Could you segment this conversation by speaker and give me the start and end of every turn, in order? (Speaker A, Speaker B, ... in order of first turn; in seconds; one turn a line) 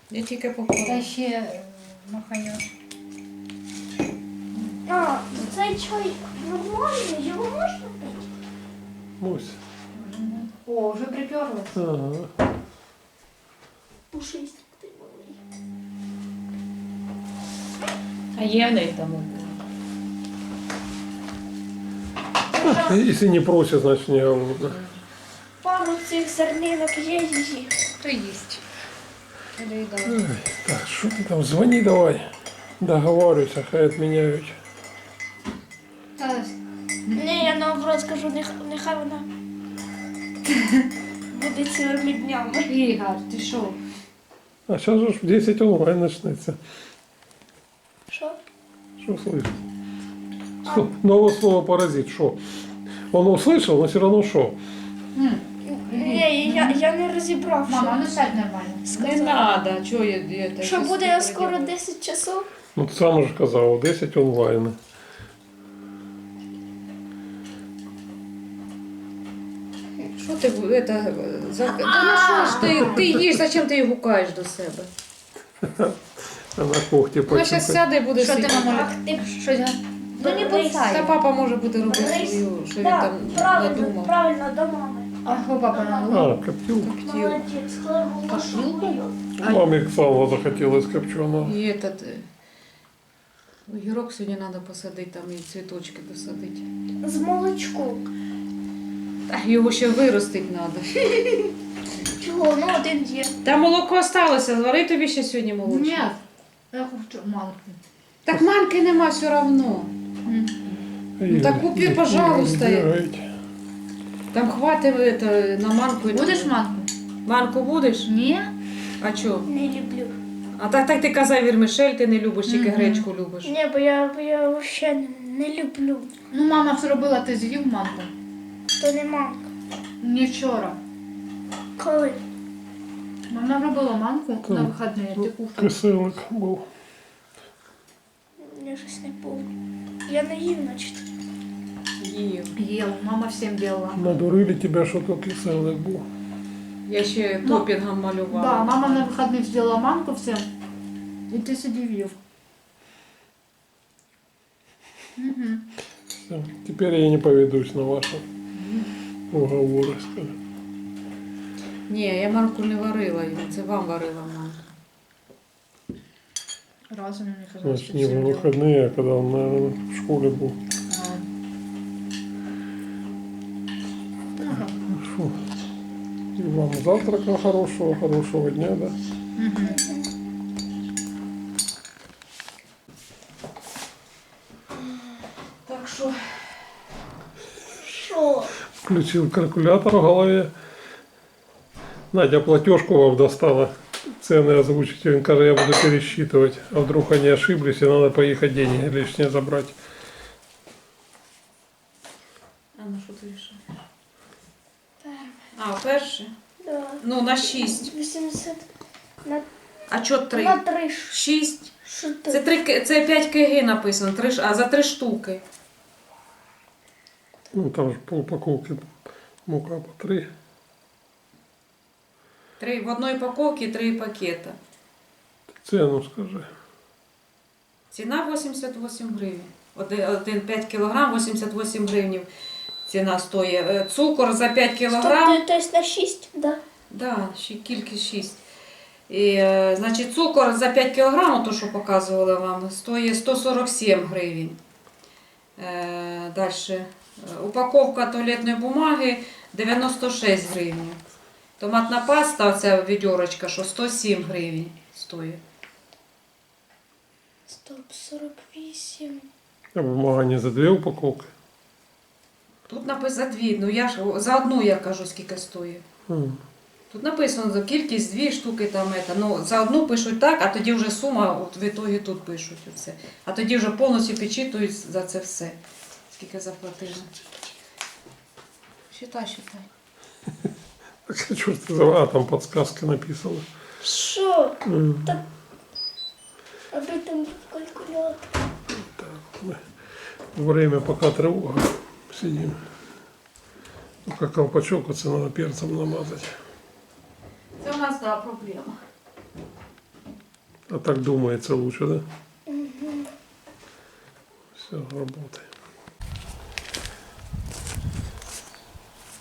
Speaker A: 0.1-1.1
Speaker B: 0.8-2.7
Speaker C: 4.8-8.3
Speaker D: 9.2-9.6
Speaker B: 9.9-11.8
Speaker D: 11.7-12.3
Speaker C: 14.1-15.4
Speaker A: 18.3-19.6
Speaker B: 22.5-23.0
Speaker D: 22.6-24.8
Speaker C: 25.6-27.7
Speaker B: 28.0-28.6
Speaker A: 29.6-30.2
Speaker D: 30.0-34.6
Speaker B: 36.2-37.5
Speaker C: 37.1-39.2
Speaker C: 41.3-42.7
Speaker B: 42.7-43.8
Speaker D: 44.7-46.6
Speaker C: 48.1-48.4
Speaker D: 49.0-49.6
Speaker D: 50.6-52.4
Speaker D: 53.0-54.6
Speaker B: 55.1-56.8
Speaker C: 55.7-58.1
Speaker B: 57.7-58.8
Speaker C: 58.8-59.5
Speaker A: 58.9-61.7
Speaker C: 60.6-62.5
Speaker D: 62.8-64.8
Speaker A: 70.1-74.9
Speaker B: 71.9-72.9
Speaker C: 72.3-72.6
Speaker D: 72.8-73.0
Speaker D: 75.6-77.8
Speaker A: 77.3-78.9
Speaker B: 78.2-80.8
Speaker C: 78.6-79.1
Speaker C: 80.2-81.1
Speaker A: 80.2-84.1
Speaker C: 81.8-85.1
Speaker B: 85.2-86.3
Speaker C: 85.7-86.3
Speaker D: 86.1-86.9
Speaker A: 86.8-87.4
Speaker C: 87.0-89.1
Speaker B: 88.3-89.6
Speaker D: 89.4-91.5
Speaker A: 91.4-92.3
Speaker A: 93.7-96.7
Speaker C: 97.0-98.1
Speaker A: 99.3-101.5
Speaker C: 102.2-103.2
Speaker A: 103.4-106.1
Speaker B: 105.6-106.2
Speaker B: 106.7-107.8
Speaker A: 108.2-109.9
Speaker B: 110.2-110.5
Speaker D: 111.2-113.3
Speaker A: 111.3-112.9
Speaker A: 114.3-116.5
Speaker B: 116.0-116.9
Speaker A: 117.2-118.1
Speaker B: 118.1-118.5
Speaker A: 119.0-119.5
Speaker C: 119.5-120.2
Speaker A: 120.5-123.5
Speaker B: 122.5-123.1
Speaker C: 123.4-126.1
Speaker B: 126.3-128.1
Speaker C: 128.8-129.4
Speaker B: 130.0-130.8
Speaker C: 131.8-132.2
Speaker B: 133.3-135.7
Speaker D: 134.4-136.7
Speaker C: 138.4-139.5
Speaker C: 140.1-141.0
Speaker A: 142.0-142.6
Speaker B: 142.6-144.0
Speaker D: 143.9-146.1
Speaker A: 146.9-149.1
Speaker B: 148.3-150.5
Speaker B: 151.3-152.2
Speaker B: 155.2-155.6
Speaker D: 156.1-158.2
Speaker D: 159.3-160.3
Speaker A: 161.9-164.7
Speaker B: 166.9-168.5
Speaker D: 167.6-170.6
Speaker B: 170.9-171.2
Speaker B: 174.4-174.7
Speaker D: 174.9-175.4
Speaker D: 176.3-178.9
Speaker B: 179.4-179.8
Speaker C: 179.6-180.1
Speaker A: 185.6-186.5
Speaker C: 187.8-188.5
Speaker D: 188.8-190.5
Speaker D: 192.1-199.7
Speaker A: 202.8-203.6
Speaker C: 205.0-205.4
Speaker A: 205.5-206.3
Speaker C: 206.6-208.7
Speaker A: 207.0-207.9
Speaker A: 209.9-211.7
Speaker C: 210.3-211.2
Speaker C: 211.8-212.4
Speaker A: 212.3-215.4
Speaker D: 217.5-220.3
Speaker A: 222.6-224.6
Speaker D: 225.6-226.5
Speaker A: 227.9-232.3
Speaker A: 232.9-235.4
Speaker C: 234.9-236.6
Speaker A: 236.9-238.4
Speaker A: 239.1-244.6
Speaker A: 245.6-251.0
Speaker A: 251.6-255.4
Speaker C: 257.5-259.3
Speaker D: 259.7-261.3
Speaker A: 262.7-265.8
Speaker D: 266.1-266.4
Speaker A: 266.9-275.6
Speaker A: 276.1-277.1
Speaker A: 278.9-279.7
Speaker D: 281.1-283.4
Speaker C: 283.8-285.2
Speaker D: 284.6-285.2
Speaker C: 286.7-288.3
Speaker D: 288.7-289.6
Speaker D: 290.3-292.6
Speaker D: 294.0-296.3
Speaker A: 297.6-298.8
Speaker D: 300.7-302.0
Speaker C: 302.5-303.1
Speaker D: 304.5-305.5